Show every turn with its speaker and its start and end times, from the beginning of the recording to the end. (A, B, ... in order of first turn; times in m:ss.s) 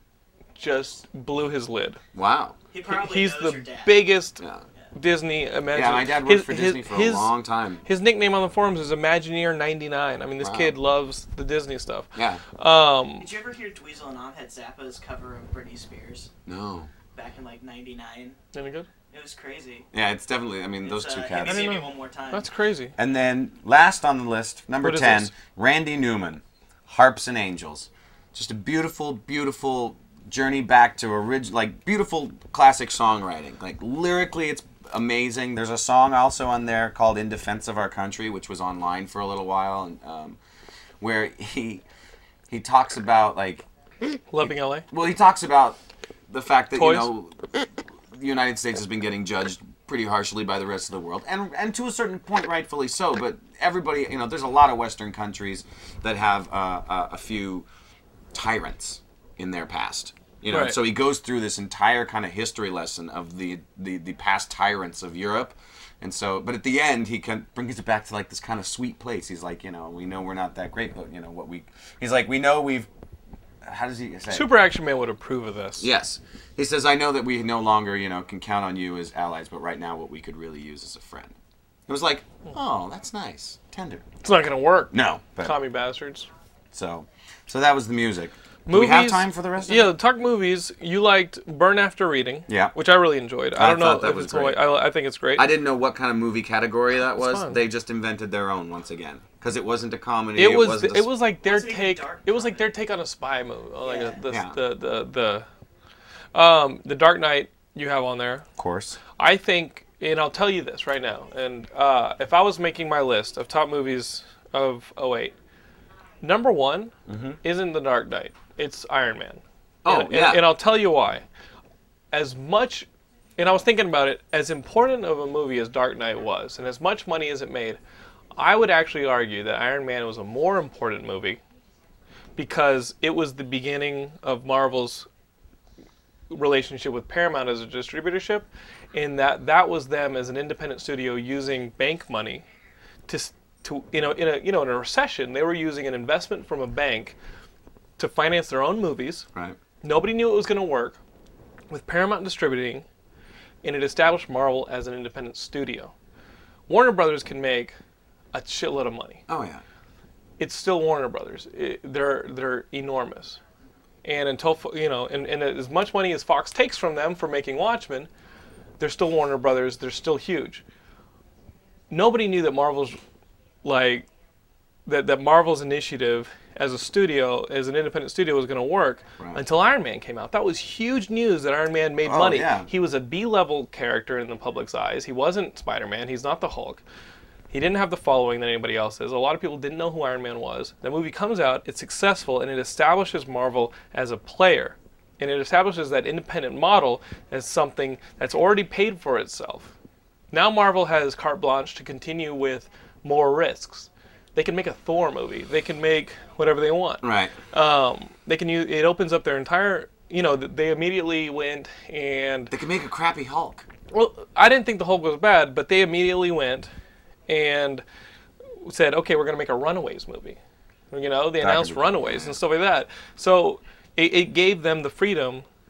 0:00.6-0:02.0 A
0:02.1-0:02.6 B
0:02.7-0:04.0 C
0:02.8-0:04.4 A
0:04.4-0:04.6 B
0:04.9-0:07.3 A
0:05.7-0:07.8 B
0:07.8-0:13.3 A
0:10.4-0:10.7 B
0:12.1-0:12.4 B
0:13.2-0:16.3 C
0:16.4-0:16.9 B
0:17.1-0:18.4 C
0:18.5-0:18.9 A
0:19.1-0:19.9 C
0:19.9-0:21.7 B
0:20.8-0:22.5 C
0:21.4-0:22.9 A
0:23.0-0:40.4 B
0:24.8-0:25.3 A
0:41.0-0:41.8 B
0:42.5-0:43.6 B
0:44.3-0:44.8 A
0:44.4-0:45.8 B
0:46.3-0:57.7 B
0:46.7-0:47.1 A
0:58.3-1:12.9 B
1:00.5-1:00.8 A
1:13.6-1:14.6 B
1:14.3-1:15.9 A
1:15.8-1:21.3 B
1:21.9-1:24.0 B
1:24.2-1:26.3 A
1:24.9-1:25.6 B
1:26.7-1:29.9 B
1:28.7-1:35.5 A
1:32.5-1:32.8 B
1:33.5-1:34.6 B
1:35.4-1:41.1 B
1:37.1-1:37.6 A
1:40.4-1:45.4 A
1:41.4-1:42.7 C
1:43.8-1:44.2 C
1:44.3-1:44.6 B
1:46.3-1:48.4 A
1:48.6-1:49.0 B
1:49.2-1:55.3 A
1:56.2-2:01.2 A
1:57.1-1:57.4 B
1:59.8-2:00.5 B
2:02.1-2:02.9 A
2:03.4-2:07.8 A
2:08.4-2:11.4 A
2:12.4-2:15.1 A
2:16.3-2:22.4 A
2:23.1-2:27.2 A
2:28.0-2:29.3 A
2:29.8-2:31.0 A
2:31.7-2:32.8 A
2:33.6-2:35.9 A
2:36.7-2:37.8 A
2:38.3-2:39.2 A
2:39.3-2:39.6 B
2:40.4-2:43.4 A
2:44.0-2:48.1 A
2:48.8-2:50.6 A
2:51.9-2:53.0 A
2:53.6-2:54.1 A
2:54.8-3:06.8 A
3:02.0-3:02.7 B
3:07.5-3:19.7 A
3:20.3-3:32.5 A
3:27.0-3:27.3 B
3:32.5-3:33.6 B
3:33.9-3:36.7 A
3:37.3-3:37.8 A
3:38.6-3:40.4 A
3:40.9-3:45.4 A
3:41.4-3:42.4 B